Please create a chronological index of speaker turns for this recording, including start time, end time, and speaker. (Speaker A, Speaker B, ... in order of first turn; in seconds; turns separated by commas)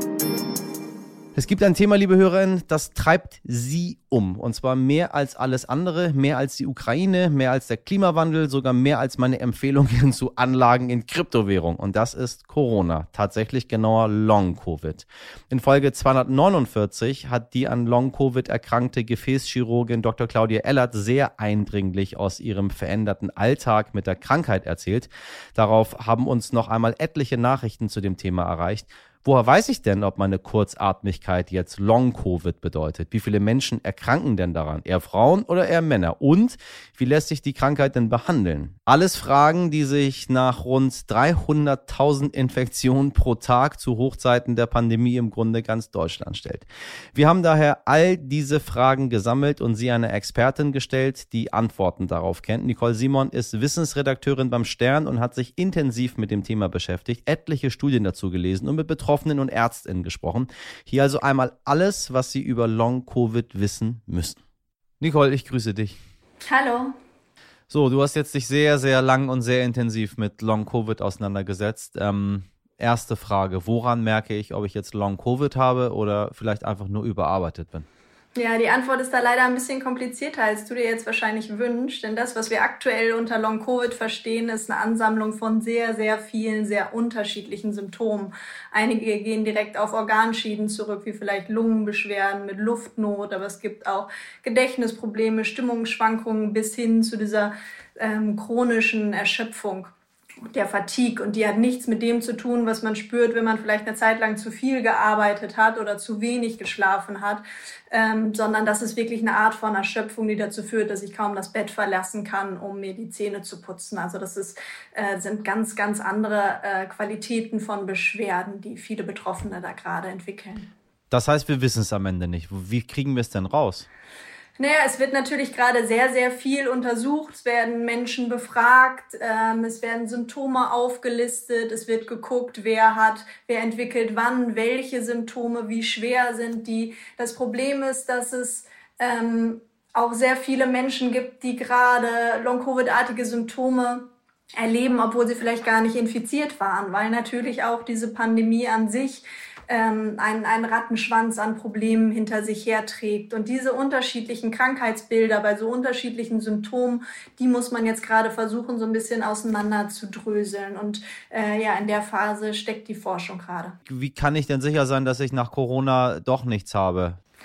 Speaker A: 1.3-64.4, Speaker A: 65.0-66.0, Speaker B: 66.5-67.0, Speaker A: 67.7-77.8, Speaker B: 78.3-99.9, Speaker B: 100.4-120.7, Speaker A: 121.1-123.8, Speaker B: 124.6-163.8, Speaker A: 163.9-167.2